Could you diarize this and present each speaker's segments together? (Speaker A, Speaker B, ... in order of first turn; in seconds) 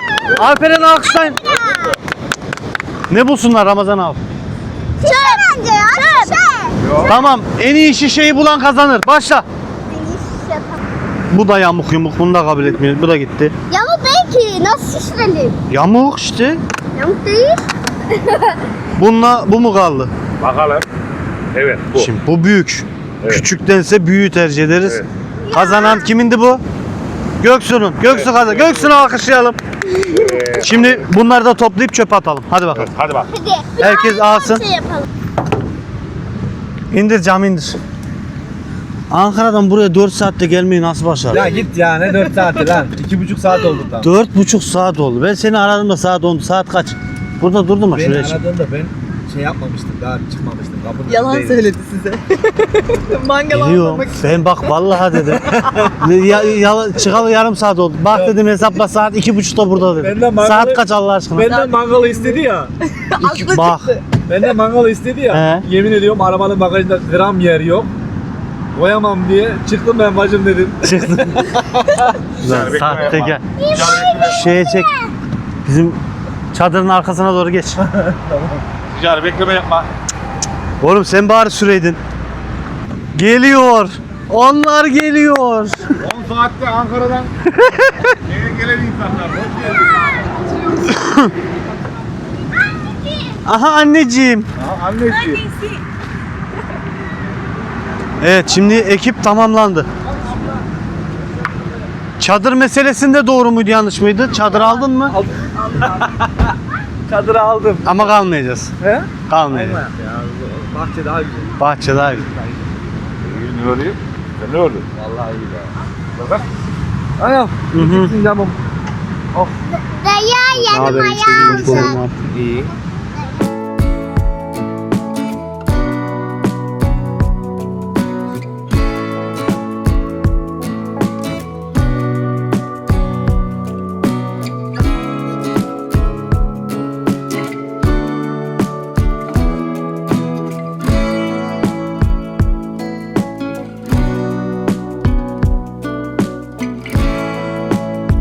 Speaker A: 0.3-1.4, 3.1-4.2, 7.0-9.4, 11.3-13.5, 15.7-16.6, 19.0-20.1, 21.9-26.6, 27.4-29.6, 30.6-32.9, 33.8-34.7, 36.9-37.8, 39.1-41.5, 44.0-48.4, 53.5-61.5, 63.2-63.9, 65.3-65.7, 70.8-71.6, 72.4-73.4, 74.1-74.9, 75.6-76.0, 76.5-77.8, 80.8-82.0, 83.1-85.8, 87.5-88.1, 90.8-91.3, 93.4-94.5, 98.2-99.9, 102.2-105.2, 107.8-108.7, 109.3-109.8, 111.6-112.2, 117.7-118.1, 120.7-122.2
Speaker B: 1.4-1.9, 5.0-7.1, 9.9-10.8, 13.7-15.5, 16.9-17.6, 33.4-35.1, 73.6-75.1, 119.9-122.0
Speaker C: 1.4-1.9, 6.8-7.1, 20.4-20.8, 21.5-22.1, 28.0-29.0, 30.0-31.1, 32.8-33.3, 72.4-74.4, 78.9-79.9, 86.0-87.3, 88.2-90.1, 94.6-95.5, 113.2-114.9, 116.2-116.5
Speaker D: 41.3-44.1, 47.9-51.7, 55.5-55.9, 58.1-58.4, 60.0-62.7, 64.2-67.9, 68.7-70.9, 104.5-106.1, 107.1-108.1, 108.8-111.5, 112.3-112.6, 114.9-115.7, 117.2-118.6, 122.3-122.7
Speaker E: 51.1-52.2, 53.0-54.1, 61.5-62.4, 63.1-63.7